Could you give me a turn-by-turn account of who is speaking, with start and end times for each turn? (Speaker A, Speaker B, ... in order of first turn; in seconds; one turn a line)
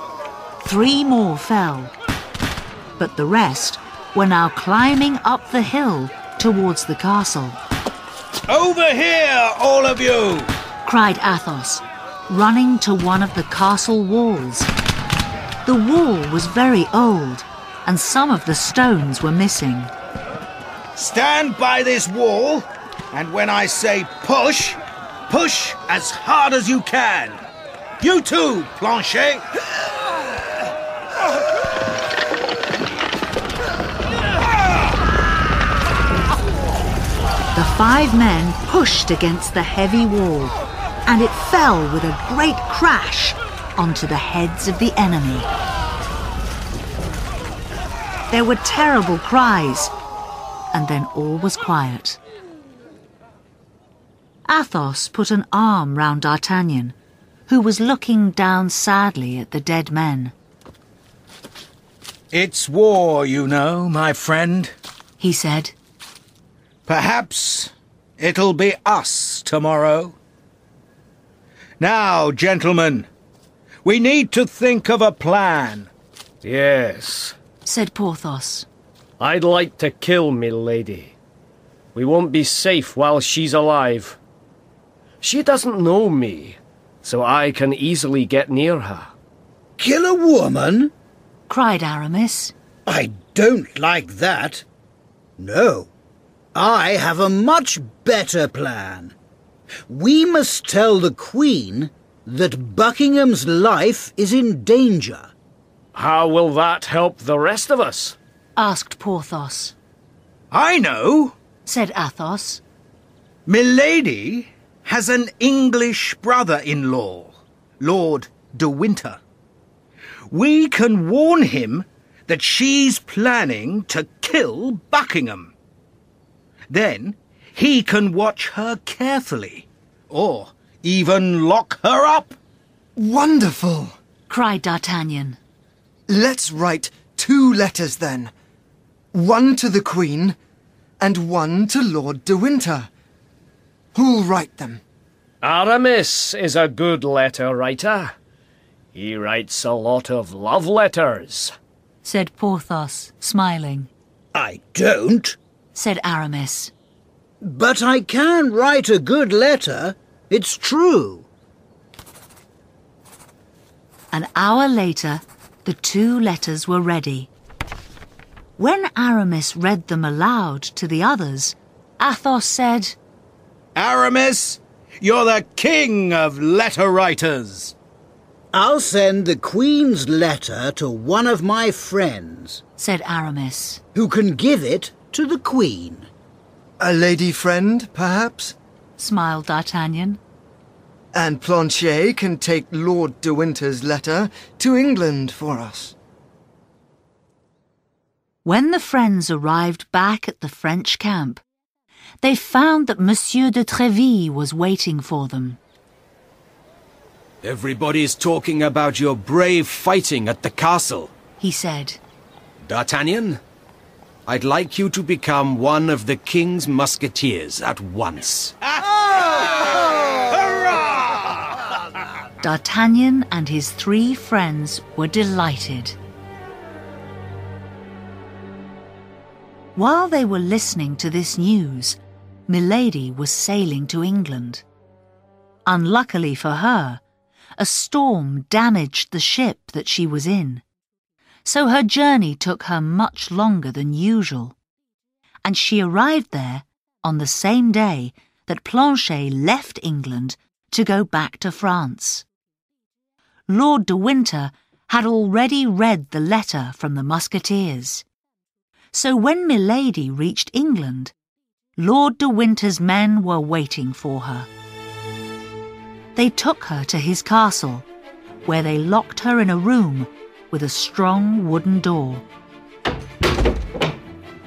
Speaker A: 0.6-1.9
Speaker A: 3.0-7.6
Speaker B: 8.5-10.5
Speaker A: 10.8-14.7
Speaker A: 15.6-19.9
Speaker B: 20.9-27.4
Speaker B: 28.0-29.4
Speaker A: 37.5-40.5
Speaker A: 41.0-45.5
Speaker A: 48.3-49.9
Speaker A: 50.7-52.2
Speaker A: 54.5-56.9
Speaker A: 57.5-60.3
Speaker B: 62.3-64.7
Speaker A: 65.2-65.7
Speaker B: 66.8-70.2
Speaker B: 71.8-73.1
Speaker B: 73.8-75.9
Speaker C: 76.4-77.3
Speaker A: 77.6-78.7
Speaker C: 79.2-81.1
Speaker C: 81.9-84.2
Speaker C: 85.2-89.1
Speaker D: 89.8-90.9
Speaker A: 91.5-92.5
Speaker D: 92.8-94.7
Speaker D: 95.4-95.9
Speaker D: 96.5-99.1
Speaker D: 99.9-105.3
Speaker C: 105.9-108.2
Speaker A: 108.6-109.7
Speaker B: 110.5-111.3
Speaker A: 111.6-112.6
Speaker B: 113.5-119.2
Speaker B: 120.3-125.5
Speaker B: 126.7-132.4
Speaker E: 133.0-133.9
Speaker A: 134.3-135.4
Speaker E: 136.1-138.3
Speaker E: 139.1-140.3
Speaker E: 141.0-142.9
Speaker E: 143.9-144.8
Speaker C: 145.4-148.1
Speaker C: 148.9-151.5
Speaker A: 152.0-153.9
Speaker D: 154.3-155.4
Speaker A: 155.7-156.7
Speaker D: 157.4-161.3
Speaker A: 164.1-167.3
Speaker A: 168.6-172.9
Speaker B: 173.7-177.7
Speaker D: 178.5-182.6
Speaker A: 182.8-183.8
Speaker D: 183.9-186.1
Speaker E: 186.8-188.5
Speaker A: 189.0-190.2
Speaker E: 191.1-195.9
Speaker A: 198.4-201.4
Speaker A: 202.2-205.6
Speaker F: 207.4-211.1
Speaker A: 211.4-212.0
Speaker F: 212.6-213.4
Speaker F: 214.3-218.6
Speaker B: 219.1-221.4
Speaker A: 222.4-225.9
Speaker A: 229.8-234.6
Speaker A: 235.7-237.0
Speaker A: 237.6-240.6
Speaker A: 241.4-244.6
Speaker A: 245.4-252.2
Speaker A: 253.5-258.0
Speaker A: 258.9-261.1
Speaker A: 261.8-264.5
Speaker A: 266.1-267.9
Speaker A: 268.4-272.2